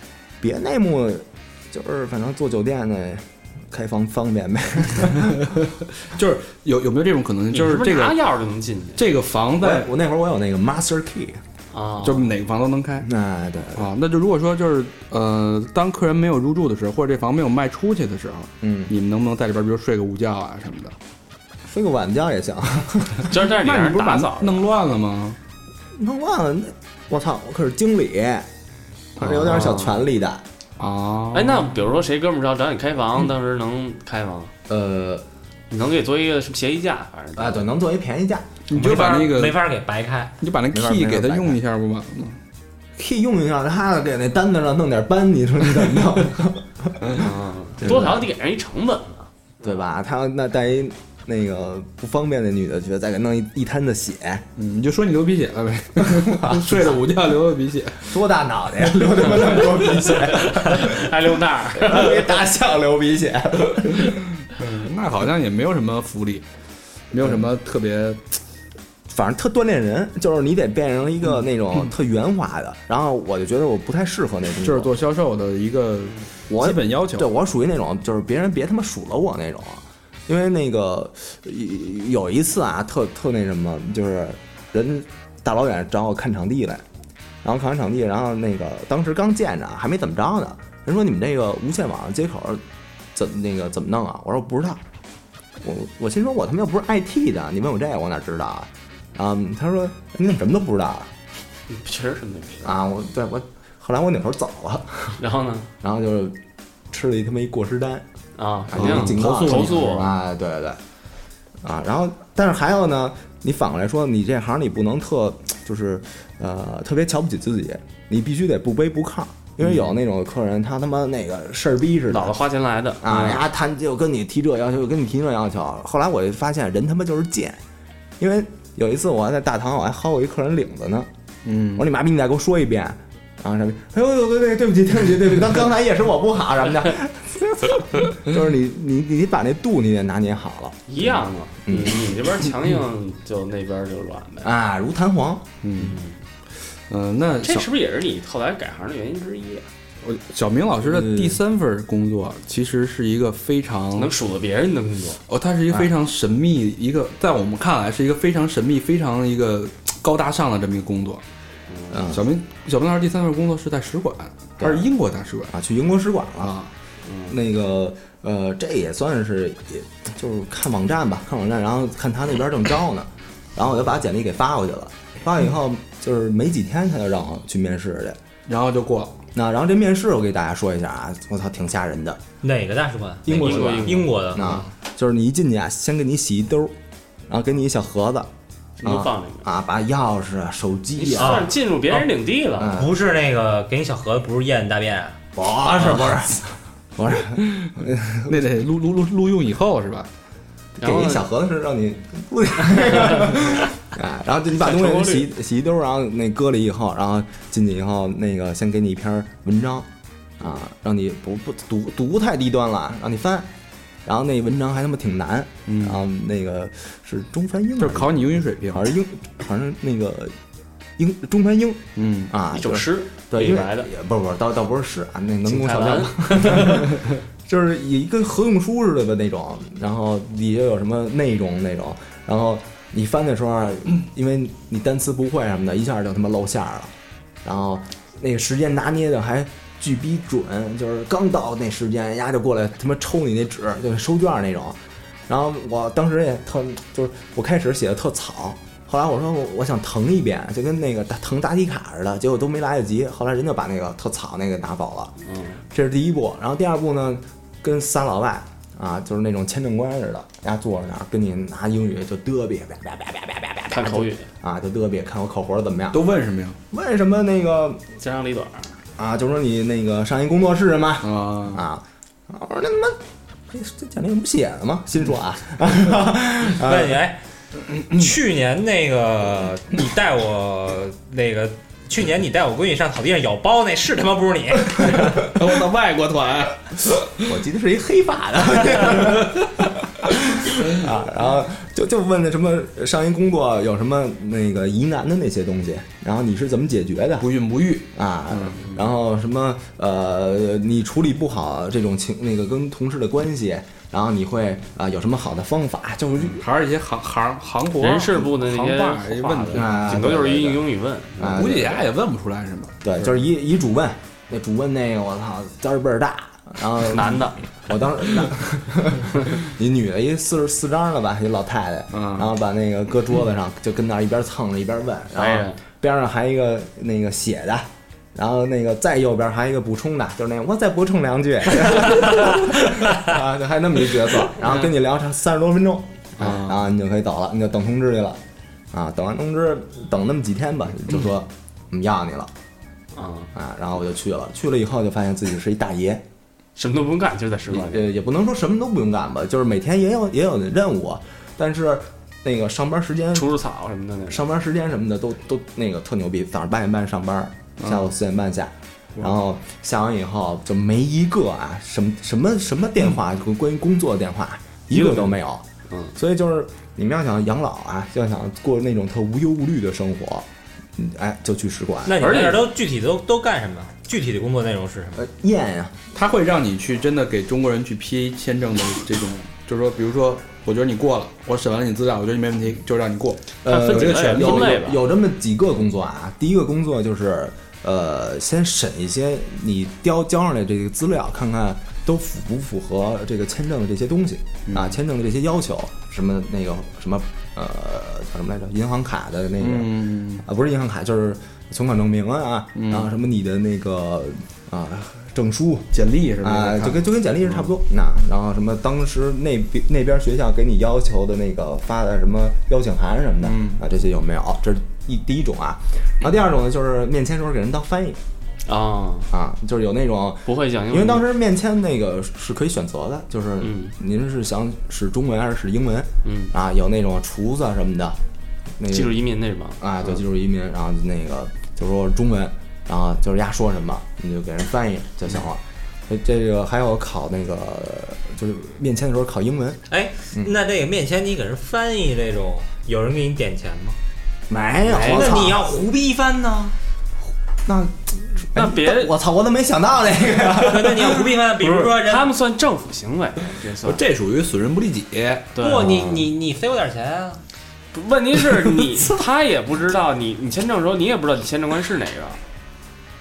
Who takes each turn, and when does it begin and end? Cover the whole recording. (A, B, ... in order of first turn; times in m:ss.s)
0:00.4-0:05.5 A
0:06.1-0:08.2 B
0:07.5-0:09.0 C
0:09.0-0:09.9 B
0:09.6-0:11.4 A
0:11.7-0:12.3 C
0:12.0-0:13.1 B
0:13.0-0:13.9 A
0:13.8-0:21.0 B
0:18.6-0:18.9 A
0:21.7-0:23.3 A
0:23.3-0:24.7 C
0:23.5-0:25.4 B
0:26.0-0:28.5 A
0:29.2-0:30.4 A
0:29.2-0:29.6 B
0:29.5-0:30.0 C
0:30.8-0:31.7 B
0:31.3-0:34.5 C
0:34.7-0:35.2 A
0:35.7-0:37.7 C
0:37.4-0:38.5 A
0:38.7-0:39.6 B
0:38.7-0:40.3 D
0:40.4-0:42.4 B
0:40.7-0:41.6 A
0:43.0-0:47.2 A
0:47.2-0:49.3 C
0:47.8-0:48.1 A
0:47.8-0:48.1 B
0:49.6-0:54.4 A
0:54.6-0:58.1 B
0:56.2-0:56.8 A
0:58.0-1:01.1 A
0:59.5-1:00.2 B
1:00.3-1:02.4 C
1:01.7-1:04.2 A
1:04.5-1:06.4 B
1:07.1-1:08.4 B
1:09.1-1:14.9 A
1:14.6-1:17.3 B
1:16.5-1:26.8 A
1:27.4-1:32.6 A
1:33.1-1:34.8 A
1:35.6-1:41.1 A
1:41.7-1:42.7 C
1:42.6-1:45.2 A
1:45.2-1:45.7 C
1:45.8-1:46.4 A
1:46.9-1:48.0 A
1:48.4-1:50.2 C
1:48.7-1:50.8 A
1:48.8-1:50.1 B
1:51.6-2:02.4 A
2:02.1-2:03.4 C
2:03.0-2:07.6 A
2:08.2-2:11.1 A
2:11.4-2:11.8 B
2:11.8-2:20.9 A
2:20.9-2:24.5 C
2:21.6-2:22.0 A
2:24.4-2:25.4 A
2:25.6-2:26.0 B
2:25.8-2:26.1 C
2:26.9-2:27.7 B
2:27.4-2:29.7 C
2:30.0-2:34.1 B
2:30.9-2:31.4 A
2:34.0-2:35.2 C
2:35.3-2:41.2 B
2:41.7-2:41.9 C
2:41.9-2:42.2 A
2:42.1-2:45.5 B
2:44.6-2:44.9 A
2:45.5-2:46.6 A
2:46.4-2:46.7 B
2:47.0-2:47.3 C
2:47.3-2:58.2 A
2:58.5-2:59.2 B
2:59.4-3:02.2 A
3:02.4-3:04.7 D
3:03.2-3:06.8 A
3:03.3-3:04.2 C
3:07.3-3:08.3 A
3:08.8-3:09.5 C
3:08.8-3:11.5 A
3:11.0-3:12.8 C
3:11.2-3:12.1 D
3:12.6-3:12.9 A
3:12.7-3:15.2 D
3:15.4-3:18.3 A
3:17.4-3:17.7 B
3:18.3-3:20.1 B
3:20.8-3:29.9 A
3:20.8-3:21.3 C
3:24.6-3:25.3 C
3:30.4-3:33.5 A
3:34.1-3:40.4 A
3:35.7-3:36.0 B
3:37.8-3:38.9 B
3:41.0-3:56.9 A
3:42.0-3:42.3 B
3:42.5-3:43.9 C
3:45.5-3:46.9 C
3:57.4-4:15.1 A
4:15.2-4:15.6 C
4:15.7-4:26.0 A
4:23.7-4:24.3 C
4:25.9-4:26.6 B
4:26.7-4:27.8 A
4:28.0-4:28.7 C
4:29.0-4:33.0 A
4:31.0-4:31.6 B
4:33.5-4:37.0 A
4:36.5-4:37.2 D
4:37.9-4:45.3 D
4:44.8-4:47.3 B
4:47.2-4:57.3 A
4:57.2-4:58.6 B
4:57.9-5:06.4 A
5:06.2-5:09.8 B
5:07.8-5:11.8 C
5:09.5-5:10.6 A
5:11.2-5:11.8 A
5:11.3-5:13.1 B
5:12.8-5:38.2 A
5:16.9-5:17.4 C
5:21.9-5:22.3 B
5:25.2-5:25.6 C
5:34.4-5:34.7 C
5:36.2-5:36.6 B
5:38.7-5:42.3 A
5:42.9-5:43.3 C
5:43.3-5:46.0 A
5:46.6-5:47.8 C
5:47.5-5:53.3 A
5:53.1-5:54.2 C
5:54.1-6:05.4 A
5:57.6-5:57.9 B
6:04.8-6:05.1 C
6:05.7-6:05.9 C
6:06.0-6:12.2 A
6:11.8-6:15.0 D
6:12.0-6:12.5 C
6:15.0-6:15.7 A
6:15.9-6:24.6 B
6:23.4-6:45.7 A
6:23.5-6:24.8 C
6:34.5-6:34.8 B
6:39.4-6:40.2 B
6:42.6-6:42.9 B
6:45.7-6:47.5 B
6:46.2-6:58.0 A
6:53.2-6:53.6 B
6:58.5-6:59.1 C
6:59.1-7:08.0 A
7:00.3-7:01.1 C
7:03.4-7:03.7 C
7:06.0-7:06.3 C
7:08.6-7:08.9 A
7:08.7-7:10.0 C
7:09.6-7:19.6 A
7:19.7-7:23.8 D
7:24.3-7:25.4 A
7:24.6-7:25.2 C
7:24.7-7:26.5 D
7:27.5-7:31.1 A
7:28.3-7:28.9 C
7:30.4-7:32.1 D
7:31.4-7:33.8 C
7:33.6-7:35.3 B
7:35.4-7:36.1 C
7:35.4-7:37.2 D
7:37.7-7:42.2 C